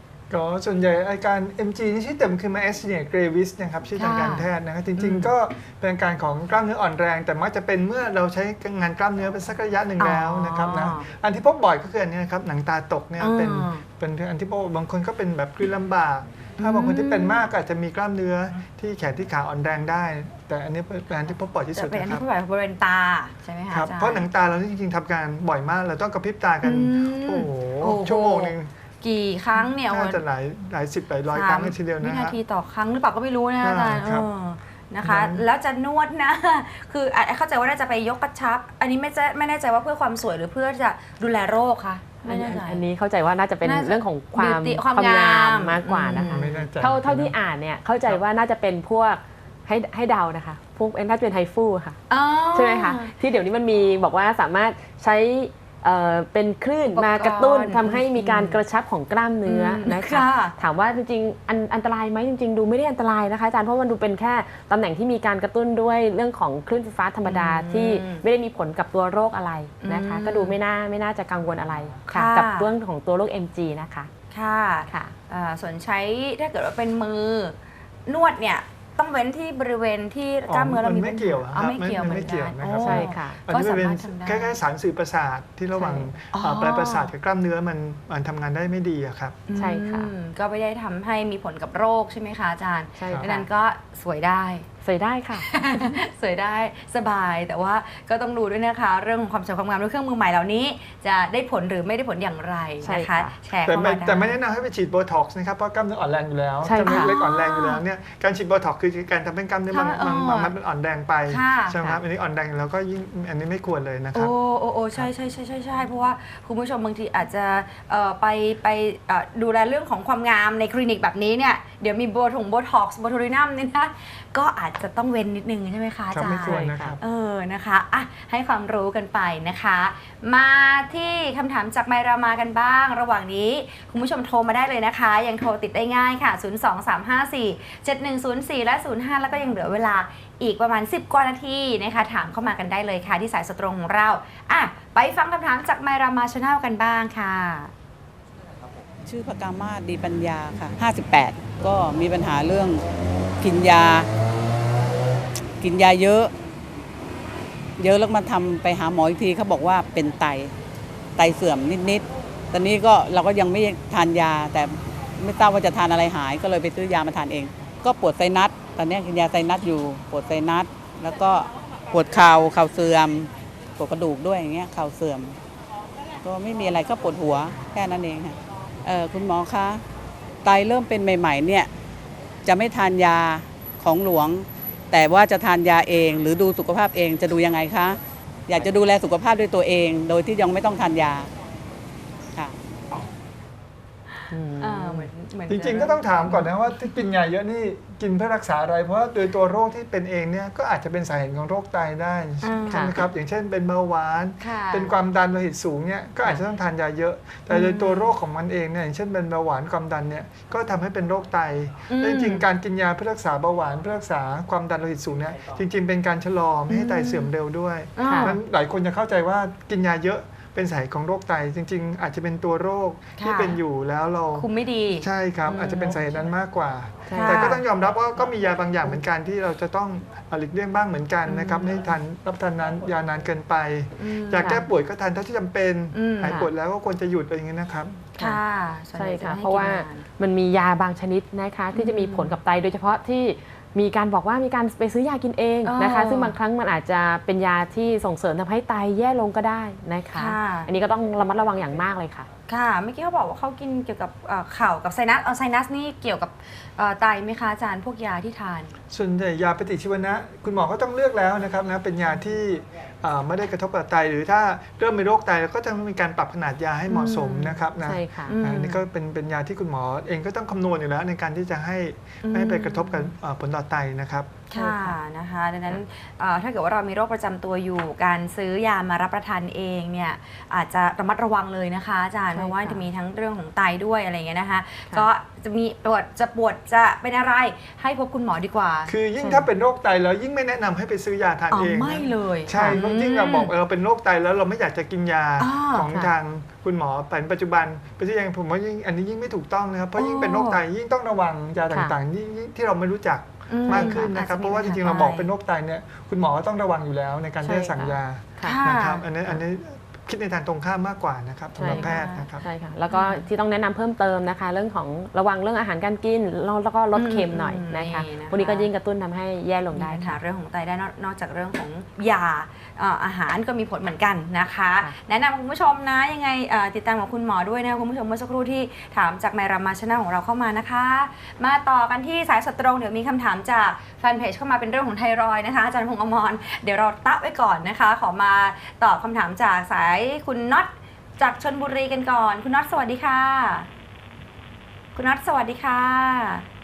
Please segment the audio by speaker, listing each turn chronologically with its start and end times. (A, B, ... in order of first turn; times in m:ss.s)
0:00.3-0:22.2 A
0:04.0-0:04.5 B
0:05.0-0:05.3 B
0:10.0-0:11.1 B
0:13.2-0:13.8 B
0:16.6-0:17.4 B
0:21.7-0:24.3 B
0:23.7-0:28.7 A
0:26.6-0:30.2 B
0:29.8-0:32.4 A
0:31.3-0:42.8 B
0:33.6-0:34.3 A
0:35.0-0:35.4 A
0:42.2-0:52.0 C
0:43.6-0:46.5 B
0:46.3-0:47.4 A
0:52.1-0:53.1 B
0:52.5-1:14.1 C
0:56.9-0:58.6 B
0:59.5-1:00.6 B
1:07.2-1:08.2 B
1:09.8-1:10.6 B
1:12.1-1:12.7 B
1:14.3-1:17.6 B
1:14.9-1:15.1 C
1:18.1-1:24.6 B
1:20.5-1:29.4 A
1:22.8-1:23.4 C
1:25.8-1:26.0 C
1:26.3-1:27.1 B
1:29.5-1:34.7 B
1:29.6-1:30.1 C
1:33.0-1:33.5 C
1:34.8-1:35.9 C
1:35.3-1:44.4 B
1:42.8-1:43.4 C
1:43.6-1:54.3 A
1:46.6-1:47.1 C
1:46.8-1:47.8 B
1:49.7-1:50.5 B
1:51.3-1:51.8 B
1:54.1-2:27.7 B
2:06.1-2:07.0 A
2:06.3-2:07.0 C
2:29.0-2:32.8 D
2:33.4-2:34.1 D
2:35.6-2:36.3 D
2:37.8-2:40.6 D
2:41.2-2:55.4 D
2:56.2-2:59.8 D
3:00.4-3:01.7 D
3:02.4-3:11.3 D
3:14.3-3:15.1 C
3:14.6-3:16.7 B
3:15.5-3:44.5 A
3:22.4-3:23.0 B
3:24.4-3:24.9 B
3:27.5-3:28.2 B
3:31.9-3:32.4 B
3:36.7-3:37.3 B
3:38.0-3:38.4 B
3:38.0-3:38.4 C
3:43.2-3:43.6 B
3:44.4-3:46.0 B
3:45.0-3:58.2 A
3:47.1-3:47.6 C
3:47.1-3:47.6 B
3:51.3-3:51.8 B
3:54.0-3:54.6 B
3:55.9-3:56.5 B
3:58.2-4:00.1 B
3:59.0-4:12.3 C
4:01.7-4:02.4 B
4:05.6-4:06.4 B
4:10.1-4:10.7 B
4:12.5-4:18.7 B
4:18.9-4:34.4 A
4:26.9-4:27.6 B
4:27.8-4:28.4 C
4:28.3-4:28.8 B
4:32.2-4:33.1 B
4:34.5-4:48.9 B
4:34.5-4:35.0 C
4:42.4-4:42.8 C
4:48.9-5:12.5 A
4:51.5-4:53.5 B
4:55.4-4:55.9 B
5:00.0-5:00.6 B
5:03.5-5:05.3 B
5:03.7-5:04.1 C
5:07.4-5:08.6 C
5:08.4-5:09.0 B
5:11.6-5:20.2 C
5:11.7-5:12.3 B
5:12.9-5:13.3 B
5:16.9-5:18.7 B
5:19.8-5:43.7 B
5:45.0-5:46.4 B